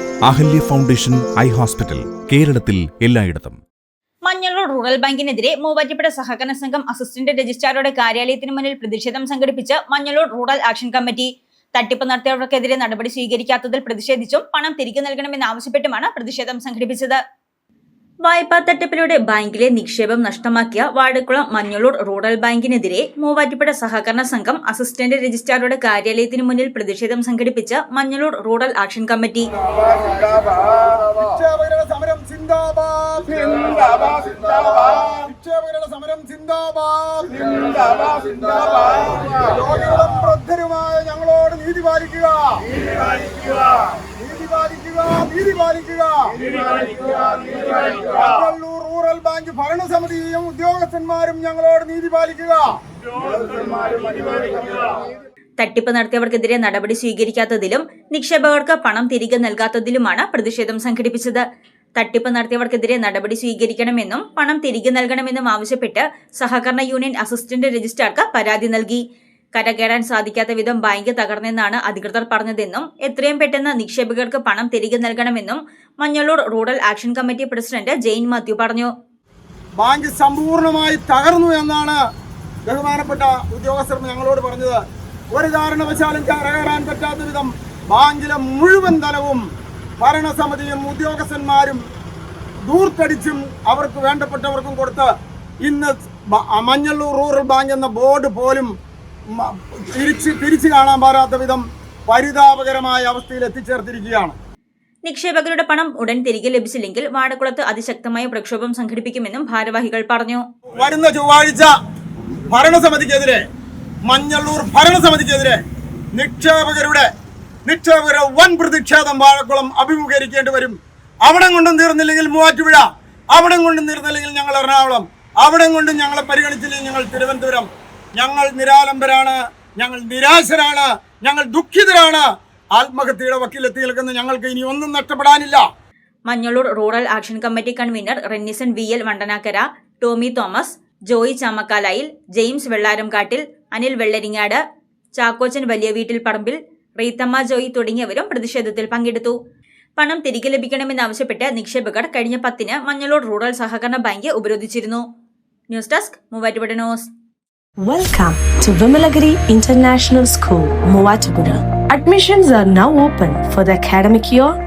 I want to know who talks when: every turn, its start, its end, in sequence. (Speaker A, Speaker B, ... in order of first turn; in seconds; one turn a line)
Speaker A: 0.2-3.6
Speaker B: 4.2-17.2
Speaker B: 18.2-29.4
Speaker C: 31.1-42.6
Speaker C: 44.2-46.3
Speaker C: 47.9-52.7
Speaker B: 55.6-61.4
Speaker B: 62.0-69.0
Speaker B: 69.5-78.9
Speaker C: 79.8-82.0
Speaker C: 82.7-84.8
Speaker C: 85.3-89.4
Speaker C: 90.0-91.8
Speaker C: 92.7-95.1
Speaker C: 95.6-98.7
Speaker C: 99.3-104.3
Speaker B: 105.0-110.4
Speaker C: 110.8-111.7
Speaker C: 112.5-113.4
Speaker C: 114.1-115.6
Speaker C: 116.1-117.1
Speaker C: 117.7-132.2
Speaker C: 132.8-135.6
Speaker B: 136.3-144.6
Speaker B: 145.2-149.3
Speaker B: 150.0-155.0
Speaker B: 155.7-157.1
Speaker D: 157.8-164.5